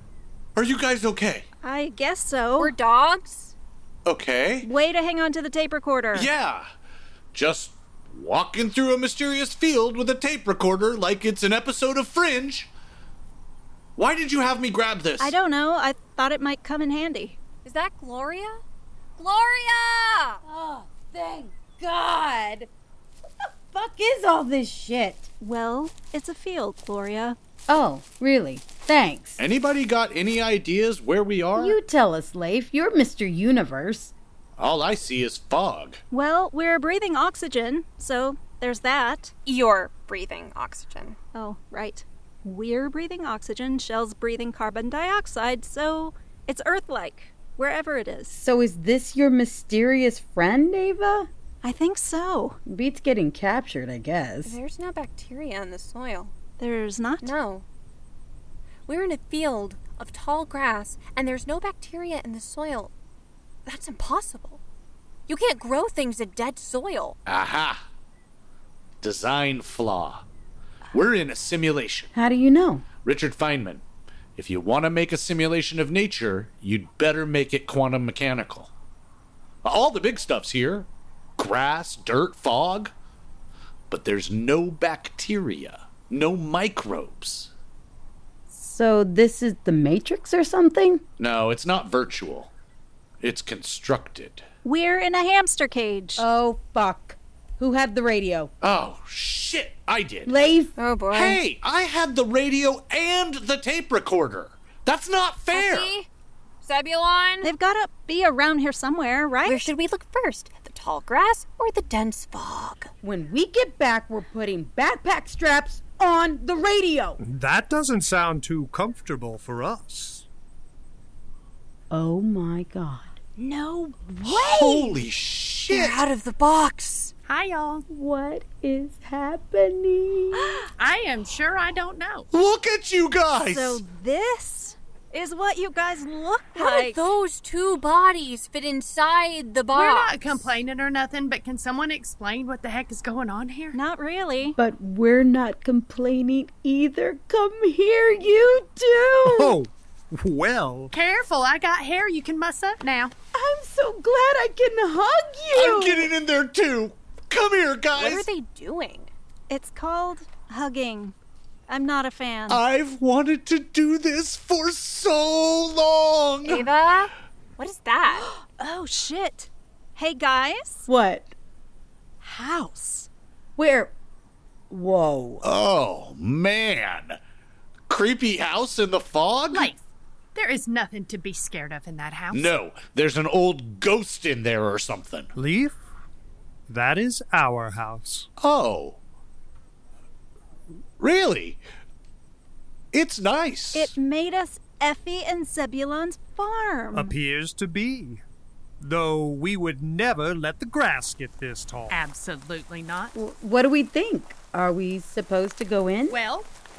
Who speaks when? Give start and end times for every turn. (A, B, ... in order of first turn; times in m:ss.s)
0:00.6-0:01.5 A
0:01.6-0:02.7 B
0:02.6-0:03.6 C
0:04.1-0:04.7 A
0:04.6-0:06.3 B
0:06.1-0:06.7 A
0:07.3-0:12.7 A
0:14.0-0:15.3 A
0:15.2-0:17.4 B
0:17.6-0:18.6 C
0:19.2-0:20.4 C
0:20.4-0:22.7 D
0:23.4-0:25.3 D
0:25.4-0:27.4 B
0:27.7-0:29.4 D
0:29.4-0:31.8 A
0:31.6-0:34.1 D
0:34.6-0:36.0 A
0:36.1-0:39.3 B
0:39.5-0:41.2 C
0:41.3-0:48.4 B
0:48.3-0:51.3 D
0:51.6-0:52.6 B
0:52.7-0:54.6 D
0:54.4-0:56.3 C
0:56.6-0:57.3 B
0:57.2-0:57.7 C
0:58.9-1:02.9 C
1:03.7-1:04.6 C
1:05.3-1:07.2 C
1:07.3-1:07.8 A
1:09.0-1:10.2 A
1:10.9-1:12.1 A
1:12.1-1:12.9 D
1:13.0-1:13.8 A
1:14.4-1:18.7 A
1:19.6-1:22.9 A
1:23.9-1:27.5 A
1:28.5-1:31.0 D
1:31.2-1:32.5 A
1:33.2-1:34.4 A
1:34.6-1:36.3 B
1:36.2-1:38.5 D
1:38.6-1:40.4 A
1:40.3-1:40.7 D
1:40.8-1:41.4 C
1:41.1-1:45.9 A
1:45.5-1:46.1 C
1:46.6-1:47.5 C
1:47.4-1:49.7 B
1:49.4-1:52.9 C
1:53.0-1:57.2 D
1:57.2-2:00.3 E
2:01.9-2:03.2 D
2:03.4-2:04.7 B
2:04.2-2:06.0 A
2:04.4-2:04.9 D
2:05.7-2:07.1 C
2:07.3-2:07.8 F
2:07.9-2:10.6 D
2:10.8-2:12.3 F
2:12.3-2:13.8 A
2:13.5-2:17.0 B
2:16.6-2:20.5 C
2:19.7-2:23.8 F
2:23.7-2:24.6 B
2:24.6-2:29.6 D
2:29.2-2:30.9 E
2:30.9-2:33.1 F
2:33.3-2:36.1 D
2:35.5-2:38.3 A
2:37.9-2:39.1 C
2:39.5-2:41.2 B
2:41.7-2:42.6 B
2:42.5-2:46.7 A
2:46.4-2:48.3 C
2:48.3-2:50.9 B
2:50.9-2:51.3 D
2:52.2-2:53.1 B
2:53.6-2:53.9 D
2:54.7-2:55.4 D
2:55.4-2:57.2 A
2:57.9-2:59.7 A
2:59.5-2:59.8 F
3:00.3-3:02.5 F
3:02.3-3:05.3 A
3:05.4-3:05.8 E
3:06.7-3:08.3 E
3:08.4-3:09.0 A
3:11.0-3:11.6 A
3:12.9-3:13.9 A
3:13.7-3:17.2 B
3:16.9-3:18.2 E
3:18.8-3:22.0 E
3:21.9-3:23.1 F
3:23.2-3:26.2 D
3:26.1-3:26.5 F